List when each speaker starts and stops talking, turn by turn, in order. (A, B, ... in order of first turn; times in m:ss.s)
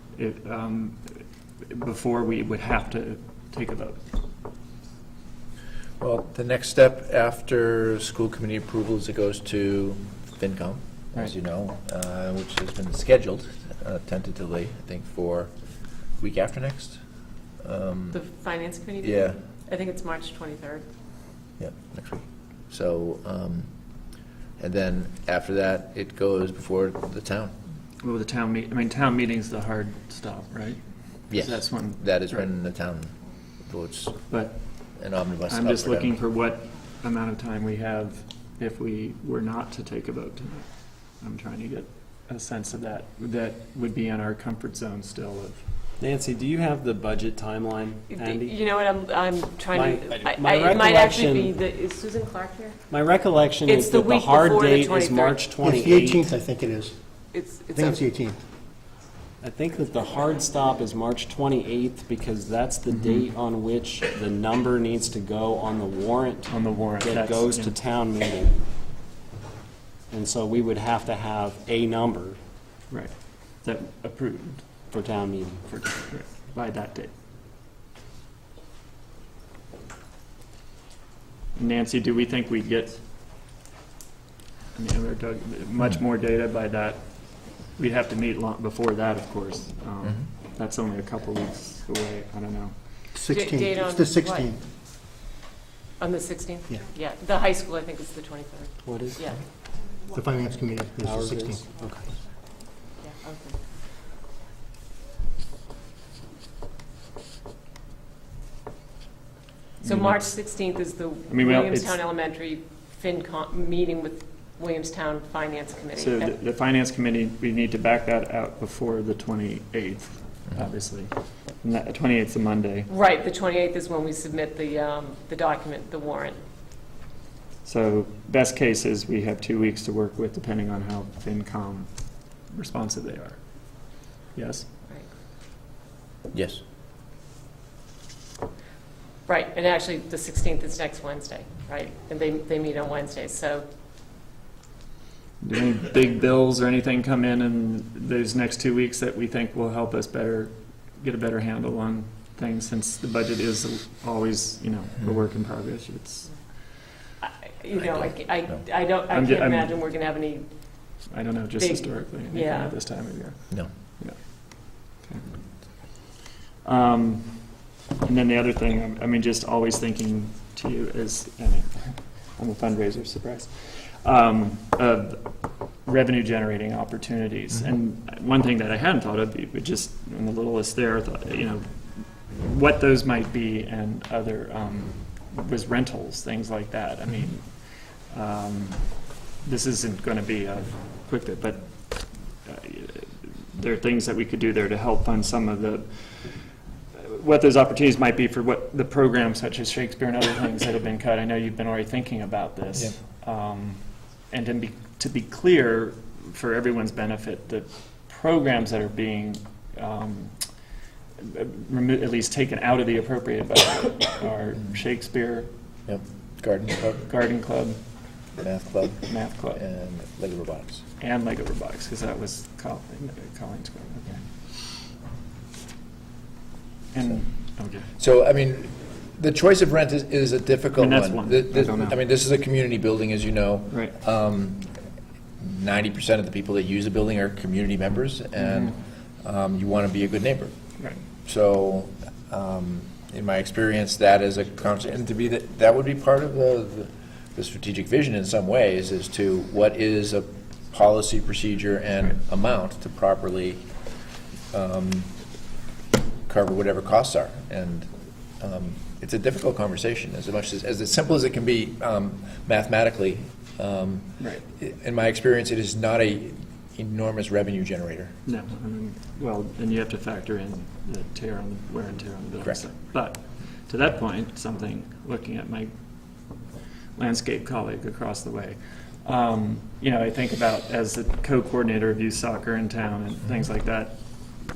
0:00.2-0:01.0 A
0:01.7-0:04.0 A
0:06.0-0:15.5 B
0:16.2-0:17.0 B
0:17.6-0:18.2 B
0:18.1-0:20.8 C
0:19.0-0:19.4 B
0:21.6-0:23.7 B
0:24.6-0:27.5 B
0:28.0-0:32.4 A
0:31.3-0:34.2 B
0:34.3-0:34.6 A
0:35.0-0:36.1 B
0:35.5-0:45.6 A
0:46.0-0:48.6 D
0:48.1-0:52.8 C
0:49.7-0:51.6 D
0:52.9-0:56.3 D
0:53.6-0:55.5 C
0:55.6-0:57.0 E
0:57.3-0:58.0 C
0:57.7-0:58.4 E
0:59.4-1:08.6 D
1:06.5-1:07.7 A
1:10.1-1:12.4 D
1:12.9-1:14.7 A
1:14.9-1:15.7 D
1:15.7-1:17.1 A
1:21.6-1:23.0 A
1:24.7-1:32.7 A
1:33.1-1:34.6 E
1:33.3-1:34.5 C
1:36.0-1:39.4 C
1:38.8-1:39.2 D
1:40.1-1:41.7 E
1:41.0-1:42.1 D
1:43.0-1:43.6 C
1:49.8-1:50.2 A
1:49.8-1:56.3 C
1:51.3-1:52.0 A
1:56.0-2:02.9 A
2:02.9-2:06.4 C
2:07.6-2:11.9 A
2:12.5-2:13.4 A
2:14.3-2:14.6 A
2:16.3-2:16.6 B
2:19.2-2:23.6 C
2:25.4-2:36.3 A
2:37.2-2:40.5 C
2:37.8-2:38.6 B
2:39.1-2:39.8 A
2:41.1-2:45.2 A
2:41.6-2:42.8 C
2:46.6-2:55.3 A
2:55.8-3:16.4 A
3:17.0-3:30.4 A
3:31.2-3:35.5 A
3:35.9-3:37.1 B
3:37.0-3:37.8 A
3:38.4-3:40.8 B
3:39.0-3:39.6 A
3:41.0-3:44.3 A
3:46.9-3:47.9 A
3:48.0-3:54.7 B
3:50.8-3:52.0 A
3:53.7-3:53.9 A
3:55.4-4:00.5 B
3:58.4-3:58.7 A
4:01.2-4:13.6 B
4:14.5-4:15.1 B
4:16.3-4:17.9 B
4:18.4-4:28.1 B
4:24.2-4:24.4 A
4:28.2-4:35.7 A
4:37.0-4:44.0 A